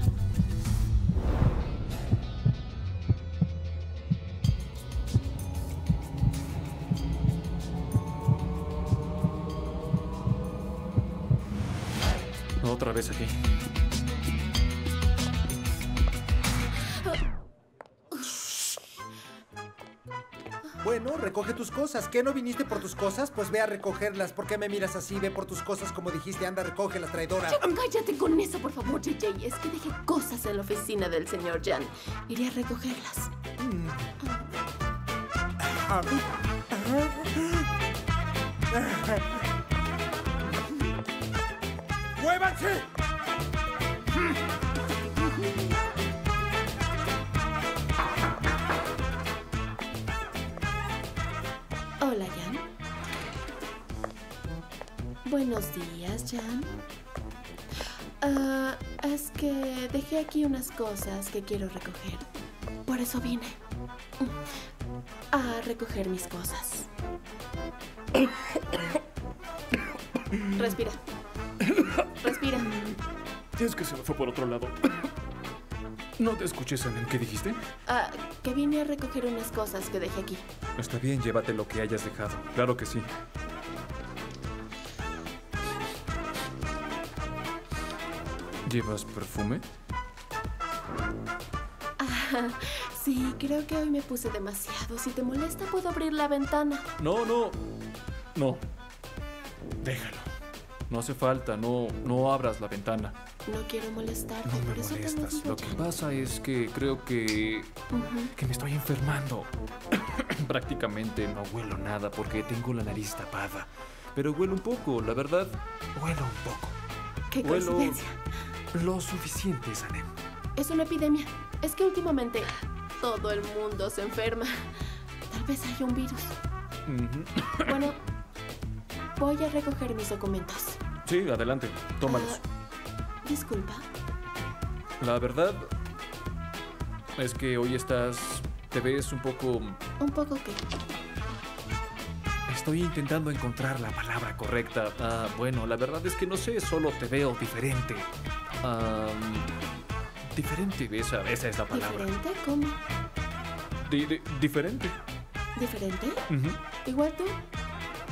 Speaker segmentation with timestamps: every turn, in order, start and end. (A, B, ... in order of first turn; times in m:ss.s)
0:12.6-0:13.3 A
0:20.8-0:27.6 B
0:27.5-0:33.3 C
0:33.6-0:34.1 B
0:34.2-0:34.5 C
0:35.6-0:36.2 B
0:36.7-0:37.6 B
0:38.7-0:39.3 B
0:42.2-0:42.8 B
0:52.0-0:52.6 C
0:55.2-0:56.7 C
0:58.2-1:02.2 C
1:02.8-1:03.6 C
1:05.3-1:06.9 C
1:10.6-1:11.0 C
1:12.2-1:12.9 C
1:13.6-1:14.8 A
1:16.2-1:17.6 A
1:17.8-1:20.4 C
1:20.8-1:23.1 A
1:28.6-1:29.6 A
1:32.0-1:36.8 C
1:37.0-1:37.6 A
1:38.3-1:38.6 A
1:39.8-1:40.3 A
1:40.9-1:43.2 A
1:43.4-1:45.8 C
1:44.4-1:47.7 A
1:47.9-1:48.3 C
1:48.4-1:49.5 A
1:50.0-1:56.8 A
1:57.3-1:58.2 C
1:57.4-1:58.0 A
1:58.7-2:00.1 A
2:00.6-2:04.7 C
2:05.3-2:06.3 C
2:06.9-2:07.7 A
2:07.6-2:08.0 C
2:09.2-2:10.8 C
2:11.0-2:12.4 A
2:12.0-2:12.4 C
2:13.2-2:13.8 C
2:15.0-2:15.7 A
2:17.2-2:19.8 A
2:20.0-2:20.6 C
2:22.5-2:28.1 A
2:28.6-2:29.5 A
2:30.3-2:32.1 A
2:31.7-2:32.8 C
2:33.9-2:34.9 A
2:35.6-2:36.2 C
2:36.3-2:36.6 A
2:36.8-2:37.4 C